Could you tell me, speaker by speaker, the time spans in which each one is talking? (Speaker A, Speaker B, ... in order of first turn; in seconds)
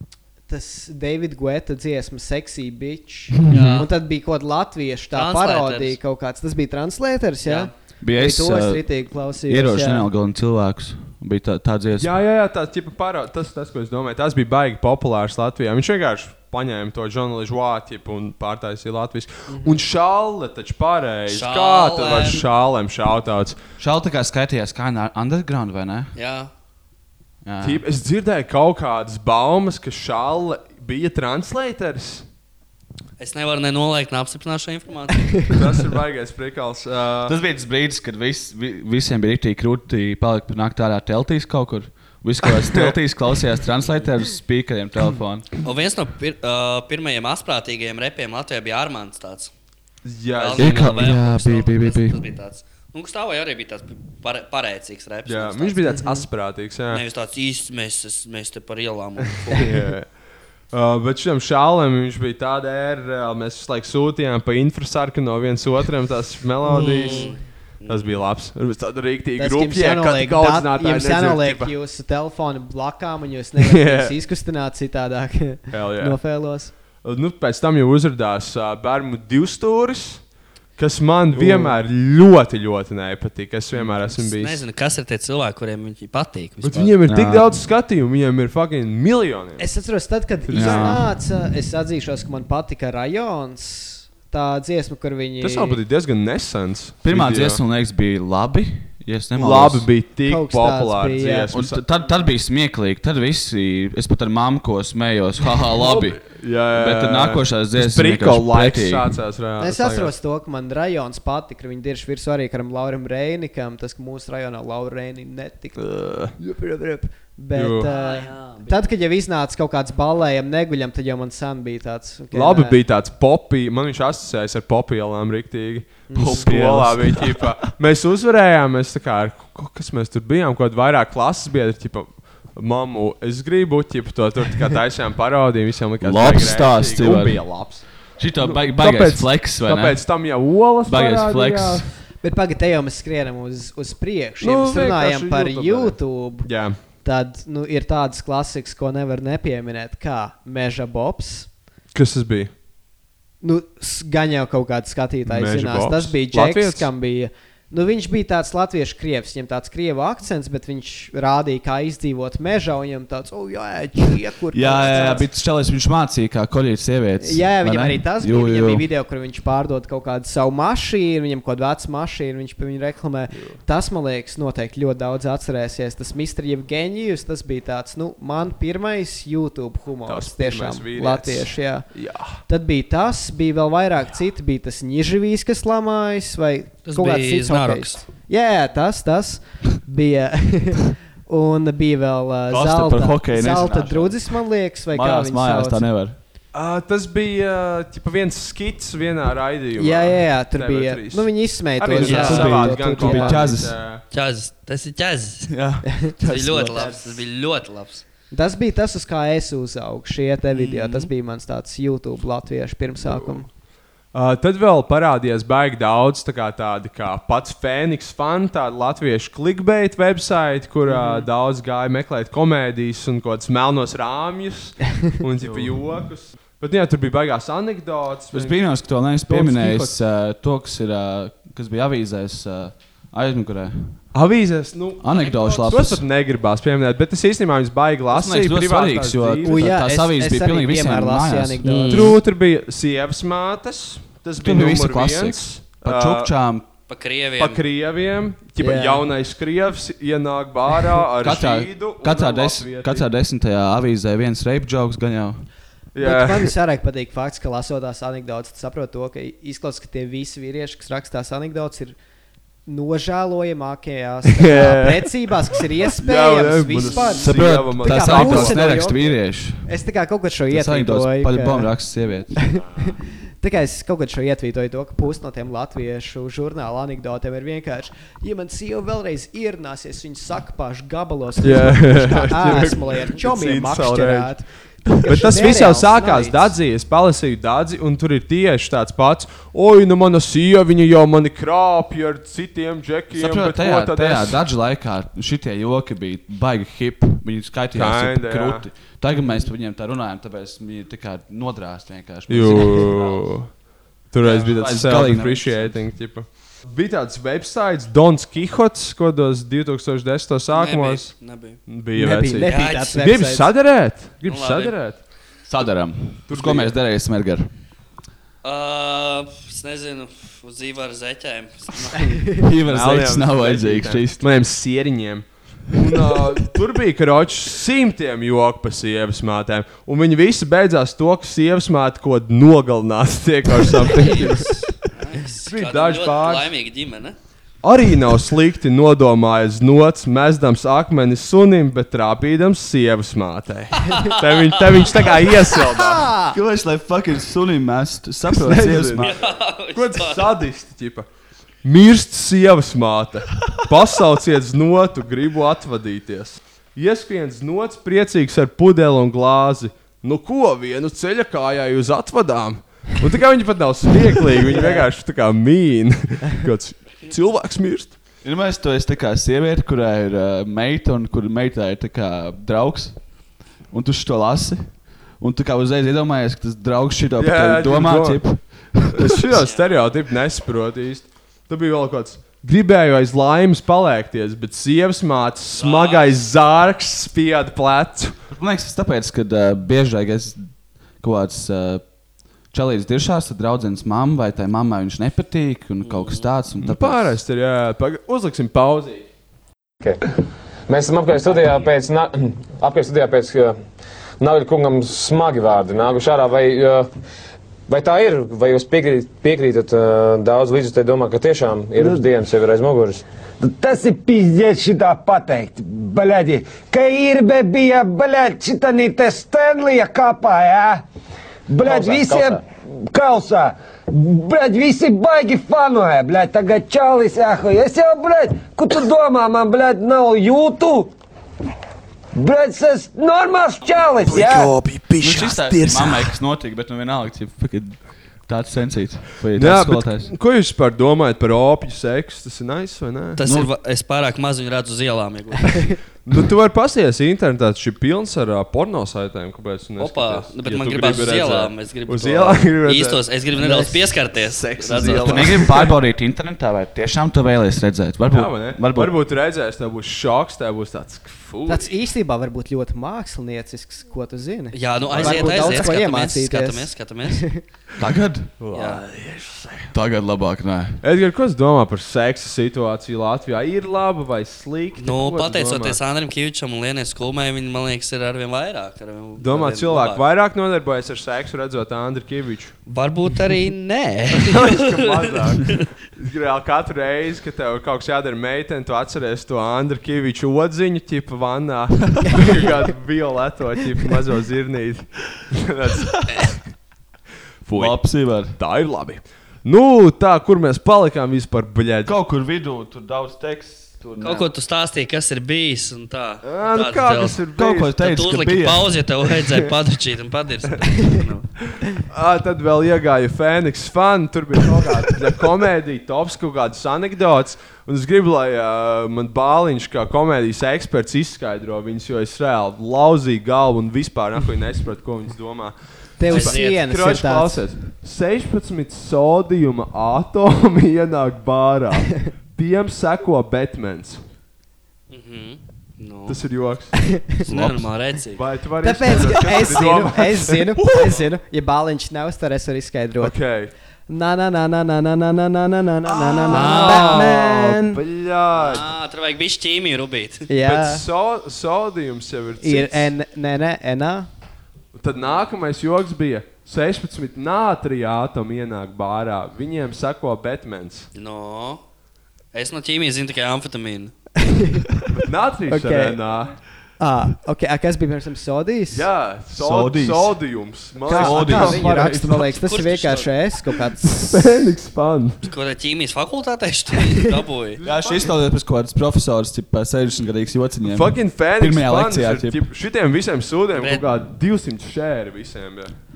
Speaker A: 0.5-10.1, 19.5-19.8, 55.9-56.2, 66.6-67.4, 69.4-76.7, 89.6-95.8, 100.3-101.5, 109.6-122.8, 126.1-126.5, 142.2-151.5, 153.4-165.3, 167.2-195.9, 199.8-203.6, 205.9-206.1, 208.3-213.5, 220.9-221.2, 239.4-242.1, 248.6-249.1, 256.0-262.0, 262.7-271.8, 272.4-286.5, 311.9-313.5, 345.8-346.4, 364.5-364.9, 453.4-453.8, 461.5-467.4, 526.0-527.5, 538.6-543.2, 543.9-547.8, 550.3-550.8, 552.4-554.1, 564.2-564.6, 565.5-566.0, 566.8-568.9, 570.9-574.4
Speaker B: 3.5-3.9, 5.1-6.0, 7.4-7.7, 21.3-22.5, 26.1-26.5, 33.2-35.7, 45.6-49.5, 50.3-55.8, 56.9-59.8, 66.8-68.2, 84.2-87.0, 117.9-118.8, 186.9-188.0, 202.1-202.4, 204.1-205.5, 206.2-208.0, 210.5-211.1, 241.6-242.2, 246.9-247.6, 310.5-311.6, 312.5-313.0, 314.3-314.8, 318.4-322.2, 333.9-337.2, 344.0-345.1, 349.0-350.4, 379.4-379.9, 385.5-386.3, 395.8-396.3, 443.2-445.8, 449.8-455.4, 464.5-467.4, 468.5-468.8, 474.8-480.0, 482.7-485.7, 504.0-507.2, 507.8-511.3, 526.1-526.6, 534.9-536.2, 537.2-538.2, 546.3-547.1, 548.3-550.3, 561.0-561.6, 562.3-563.9, 572.4-573.1, 575.2-577.6, 583.5-583.8
Speaker C: 8.0-12.1, 23.8-26.1, 27.4-27.8, 37.2-45.5, 50.6-52.2, 81.3-81.7, 87.0-87.5, 90.5-91.1, 97.0-99.9, 101.5-109.2, 126.2-127.7, 136.0-141.9, 164.5-168.9, 192.5-196.2, 202.0-203.8, 205.5-206.7, 225.4-225.9, 228.3-234.1, 235.0-236.1, 238.1-241.7, 244.4-246.7, 251.2-255.5, 267.2-269.7, 270.5-272.4, 293.1-303.3, 304.2-305.9, 315.5-317.5, 322.4-324.2, 346.3-349.1, 368.2-373.2, 373.7-379.3, 388.3-390.5, 391.0-391.8, 392.5-397.2, 435.0-440.1, 443.2-443.5, 454.8-458.9, 467.8-468.3, 469.7-470.8, 497.5-498.4, 501.8-504.3, 507.4-508.8, 537.3-537.7, 540.6-541.0, 569.4-572.0, 577.6-582.5
Speaker D: 12.0-23.6, 27.6-32.2, 35.5-37.4, 50.0-51.2, 55.3-57.0, 59.4-60.1, 60.7-67.3, 67.9-71.7, 73.6-74.1, 75.7-76.2, 76.8-84.6, 86.6-89.7, 90.5-91.0, 95.4-97.6, 99.3-101.8, 105.7-110.1, 115.8-116.3, 117.5-117.9, 122.3-141.9, 144.4-146.8, 151.9-152.5, 155.3-156.9, 180.1-182.4, 196.5-204.0, 206.2-207.1, 213.0-213.4, 214.1-230.0, 234.1-239.8, 241.9-246.3, 247.4-253.1, 255.9-256.5, 264.4-265.1, 265.9-268.8, 281.4-294.4, 297.7-298.7, 302.3-311.1, 311.7-315.0, 316.3-316.8, 322.7-334.8, 335.5-336.5, 337.6-346.1, 348.3-349.1, 349.7-351.1, 351.6-368.0, 377.2-388.1, 396.6-399.1, 434.0-436.1, 439.4-443.2, 446.1-453.0, 454.1-455.8, 458.1-461.7, 464.9-465.7, 468.4-469.7, 470.8-475.8, 479.2-482.6, 484.2-496.5, 497.4-501.9, 506.2-507.8, 511.9-534.0, 536.1-537.0, 538.1-540.5, 543.0-543.5, 546.3-548.7, 550.4-552.9, 554.8-560.9, 565.0-566.4, 568.7-572.3, 573.8-575.2, 577.6-578.1, 580.7-585.7
Speaker E: 400.7-403.6, 404.2-406.9, 407.7-413.0, 421.6-422.4
Speaker F: 411.8-412.1, 413.4-420.8, 421.5-430.9, 432.1-434.6